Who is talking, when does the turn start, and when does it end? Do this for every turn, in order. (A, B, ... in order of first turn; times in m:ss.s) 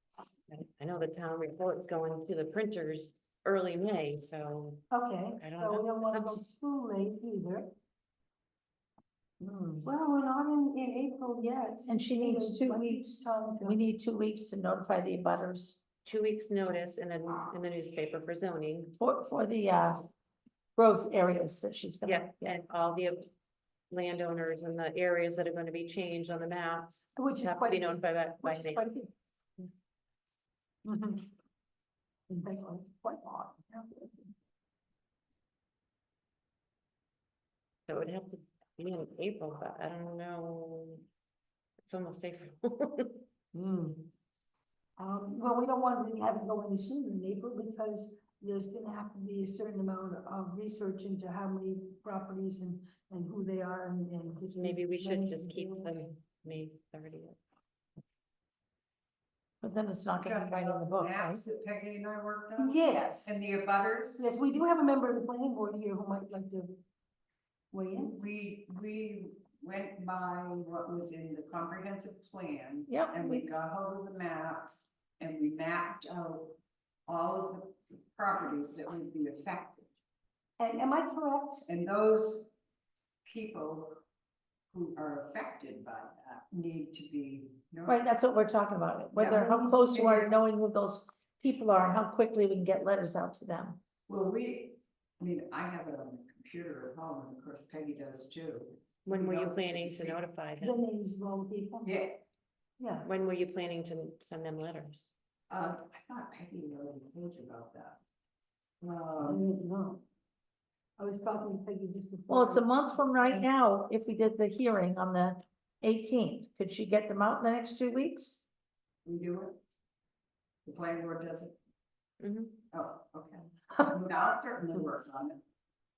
0:00.2-0:04.9 A
0:04.9-0:07.7 B
0:05.4-0:06.4 A
0:09.4-0:13.8 B
0:11.9-0:15.8 C
0:16.0-0:19.0 A
0:19.0-0:20.0 C
0:20.8-0:22.6 C
0:22.0-0:23.3 A
0:23.9-0:28.8 A
0:27.2-0:29.6 B
0:30.8-0:31.3 B
0:32.3-0:34.2 B
0:37.9-0:41.1 A
0:41.8-0:43.2 A
0:43.5-0:44.1 B
0:45.0-0:56.1 B
0:54.5-0:57.4 A
0:59.6-1:01.4 C
1:00.2-1:04.3 D
1:02.6-1:03.4 B
1:04.2-1:06.8 B
1:07.7-1:08.2 B
1:08.0-1:19.9 D
1:12.9-1:13.4 C
1:20.6-1:21.7 B
1:21.7-1:22.5 D
1:23.2-1:24.0 D
1:24.7-1:28.0 D
1:27.9-1:33.8 C
1:29.2-1:30.3 D
1:29.2-1:30.3 B
1:34.1-1:40.2 D
1:39.1-1:40.8 A
1:40.6-1:41.9 B
1:41.8-1:42.2 D
1:42.8-1:43.1 B
1:43.0-1:45.1 A
1:45.5-1:48.0 D
1:48.8-1:49.4 D
1:49.2-1:50.0 B
1:51.0-1:53.5 B
1:52.3-1:58.5 C
1:59.0-1:59.6 D
2:00.7-2:01.6 D
2:02.2-2:02.6 A
2:02.7-2:05.4 D